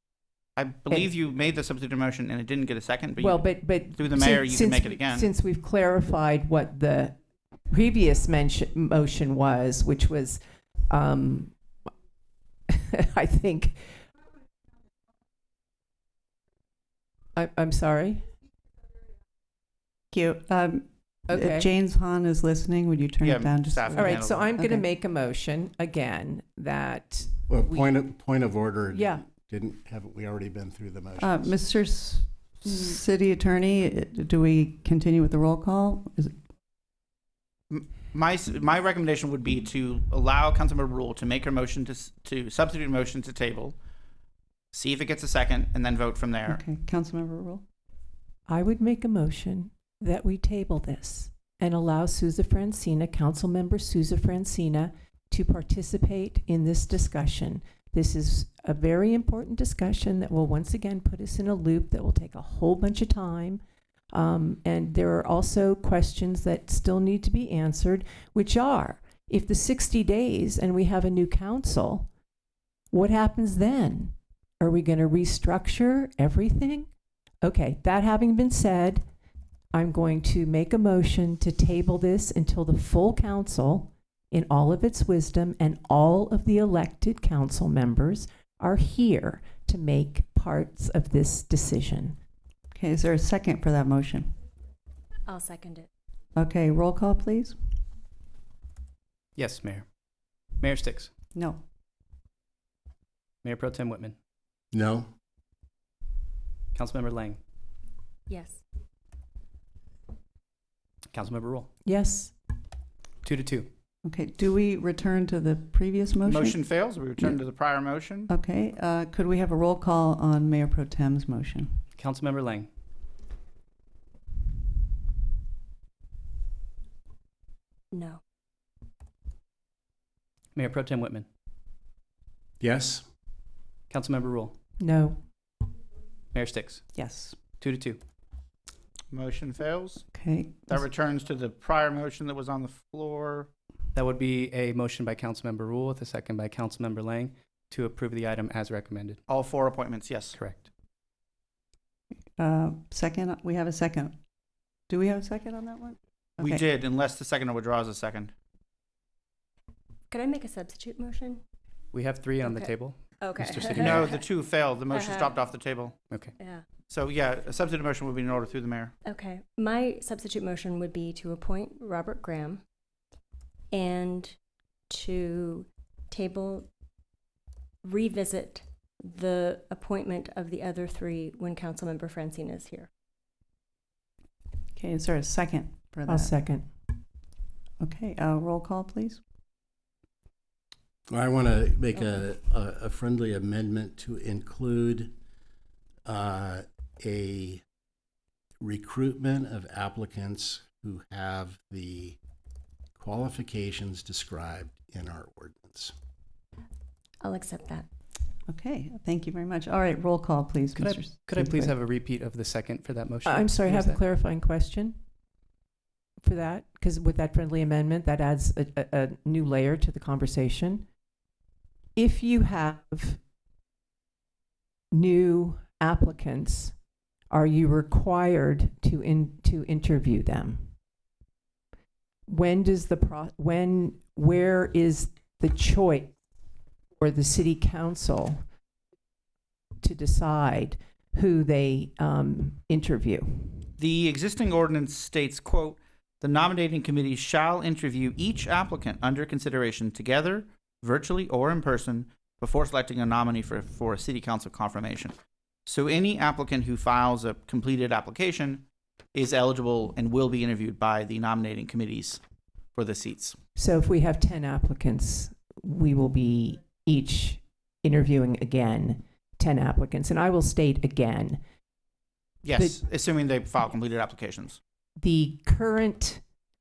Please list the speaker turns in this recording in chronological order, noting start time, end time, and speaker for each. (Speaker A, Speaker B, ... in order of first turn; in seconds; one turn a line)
Speaker A: 0.6-5.3
Speaker B: 3.2-7.2
Speaker B: 7.7-11.5
Speaker B: 12.7-13.9
Speaker B: 17.4-18.3
Speaker C: 20.1-24.8
Speaker B: 21.3-21.7
Speaker A: 23.2-24.5
Speaker B: 23.9-28.0
Speaker D: 27.5-31.6
Speaker B: 28.9-29.2
Speaker C: 31.2-36.4
Speaker A: 37.7-43.8
Speaker A: 44.7-46.6
Speaker C: 46.5-47.6
Speaker B: 48.5-63.6
Speaker B: 64.1-72.1
Speaker B: 72.9-76.9
Speaker B: 77.4-79.0
Speaker B: 79.7-92.2
Speaker C: 92.7-94.3
Speaker E: 95.3-95.9
Speaker C: 96.4-97.8
Speaker F: 99.4-99.9
Speaker F: 100.5-101.1
Speaker C: 101.3-101.6
Speaker F: 103.4-104.2
Speaker D: 104.7-105.1
Speaker F: 106.7-107.4
Speaker E: 108.3-108.6
Speaker F: 111.1-111.7
Speaker B: 111.8-112.3
Speaker F: 113.2-113.7
Speaker C: 114.0-117.3
Speaker A: 116.2-118.3
Speaker C: 118.3-121.8
Speaker F: 122.0-122.7
Speaker E: 127.9-128.2
Speaker F: 130.5-131.3
Speaker D: 132.6-133.1
Speaker F: 133.9-134.6
Speaker B: 134.8-135.2
Speaker F: 136.3-136.9
Speaker C: 136.9-137.4
Speaker F: 137.6-138.0
Speaker A: 139.1-140.1
Speaker C: 140.1-140.8
Speaker A: 140.7-143.5
Speaker F: 143.9-149.2
Speaker A: 149.3-150.4
Speaker F: 150.3-150.7
Speaker C: 152.4-154.2
Speaker C: 154.9-156.6
Speaker A: 156.4-158.3
Speaker E: 160.1-161.4
Speaker F: 161.9-164.1
Speaker E: 162.4-164.2
Speaker A: 163.8-165.9
Speaker E: 164.9-165.4
Speaker E: 166.4-166.6
Speaker A: 166.9-168.9
Speaker E: 169.1-172.6
Speaker E: 173.7-174.4
Speaker E: 174.9-176.7
Speaker E: 177.8-182.9
Speaker C: 184.8-186.3
Speaker B: 186.1-186.7
Speaker C: 187.8-189.2
Speaker D: 191.1-195.1
Speaker D: 196.1-197.6
Speaker D: 198.6-202.2
Speaker D: 203.0-205.9
Speaker E: 207.2-207.9
Speaker C: 208.5-211.8
Speaker F: 210.8-214.0
Speaker B: 213.2-215.0
Speaker B: 216.2-220.8
Speaker B: 222.0-223.2
Speaker B: 224.9-226.7
Speaker B: 227.3-230.7
Speaker B: 232.3-236.1
Speaker B: 237.0-238.4
Speaker B: 239.8-243.7
Speaker A: 243.8-255.2
Speaker A: 255.7-258.6
Speaker A: 259.1-262.2
Speaker A: 262.8-263.4
Speaker B: 263.6-271.4
Speaker A: 272.4-274.6
Speaker B: 272.6-272.8
Speaker B: 275.0-276.2